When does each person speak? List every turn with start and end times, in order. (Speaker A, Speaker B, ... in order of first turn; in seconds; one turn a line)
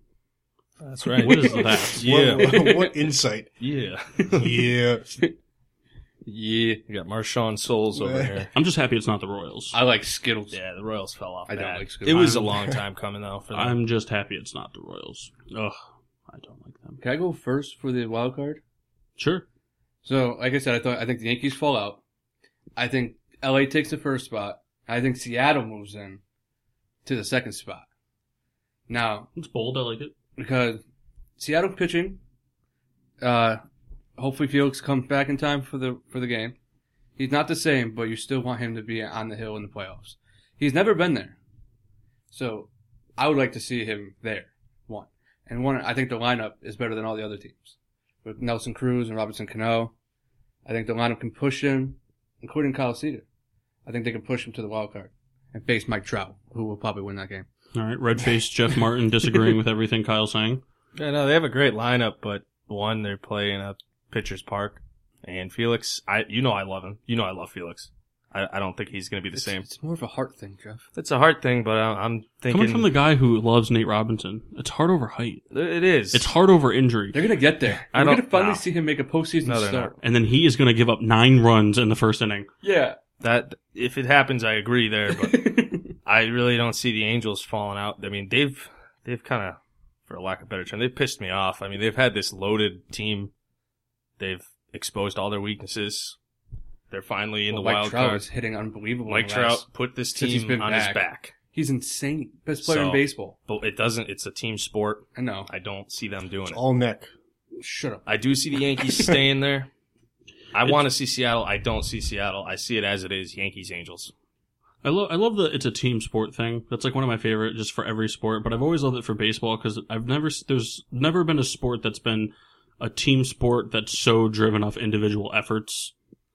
Speaker A: 0.8-2.7
Speaker B: 1.2-2.1
Speaker C: 2.0-3.5
Speaker D: 2.4-2.9
Speaker A: 3.6-4.7
Speaker C: 4.3-5.2
Speaker D: 6.2-6.8
Speaker A: 6.9-8.5
Speaker C: 8.0-8.5
Speaker B: 8.5-9.8
Speaker D: 9.7-10.6
Speaker A: 10.5-13.8
Speaker D: 11.5-12.4
Speaker B: 12.1-12.5
Speaker B: 13.5-17.0
Speaker D: 17.0-18.6
Speaker B: 19.2-19.5
Speaker D: 20.0-22.0
Speaker D: 22.8-26.2
Speaker D: 27.1-27.9
Speaker D: 28.9-29.3
Speaker B: 29.4-30.1
Speaker D: 30.4-30.8
Speaker D: 31.4-32.2
Speaker D: 33.2-33.6
Speaker D: 34.2-36.6
Speaker D: 37.2-41.4
Speaker D: 42.3-49.9
Speaker D: 50.6-53.2
Speaker D: 53.9-57.5
Speaker B: 57.8-60.6
Speaker A: 61.0-69.7
Speaker D: 69.4-70.9
Speaker A: 71.0-72.9
Speaker B: 72.5-75.5
Speaker A: 75.5-76.3
Speaker B: 76.1-77.2
Speaker D: 77.1-79.9
Speaker A: 77.9-78.7
Speaker A: 79.4-80.0
Speaker B: 80.0-82.5
Speaker D: 82.6-83.0
Speaker A: 83.2-93.3
Speaker D: 85.2-85.8
Speaker A: 94.2-96.2
Speaker A: 96.9-98.3
Speaker D: 97.5-103.3
Speaker A: 99.1-101.3
Speaker A: 102.6-106.6
Speaker D: 105.2-105.5
Speaker C: 106.5-107.1
Speaker D: 107.6-108.1
Speaker A: 108.1-109.7
Speaker A: 110.5-114.1
Speaker B: 114.8-125.9